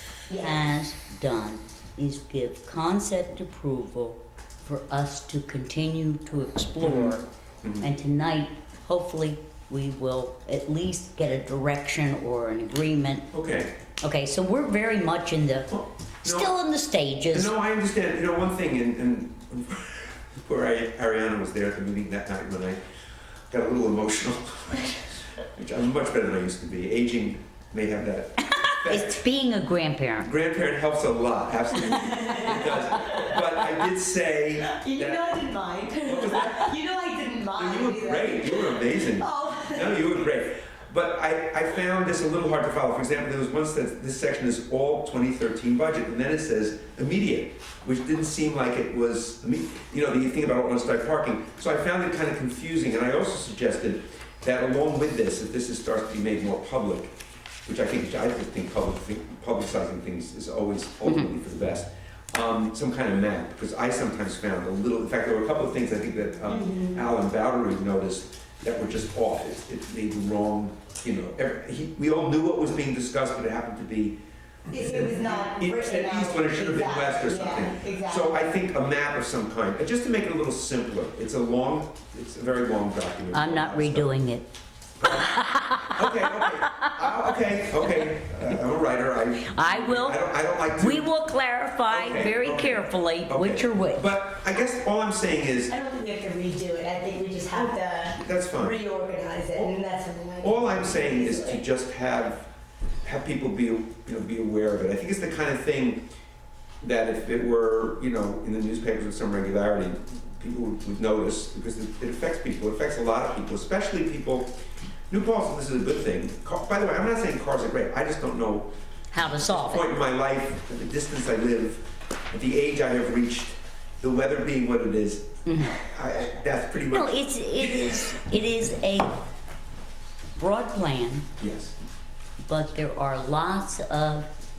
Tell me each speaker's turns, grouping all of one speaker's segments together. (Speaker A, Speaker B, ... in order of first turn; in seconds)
Speaker A: 0.3-0.7, 31.9-33.3, 34.7-40.2, 66.5-67.1, 74.7-78.5, 95.7-101.6
Speaker B: 0.4-7.2, 7.8-13.3, 14.0-15.7, 16.2-17.5, 28.5-30.3, 61.0-61.4, 83.3-84.4, 85.1-87.2, 89.5-94.1, 119.1-119.9, 125.5-125.8, 126.9-129.2, 130.4-131.2, 132.4-134.3
Speaker C: 6.8-7.9, 13.3-13.7, 15.7-16.6, 17.3-22.8, 23.5-25.0, 25.5-29.2, 30.2-35.4, 36.0-36.7, 37.5-74.2, 74.7-84.1, 85.0-91.1, 91.9-95.7, 98.2-98.8, 100.4-102.5, 103.0-106.1, 106.8-114.5, 115.1-118.7, 119.3-128.2, 131.4-131.7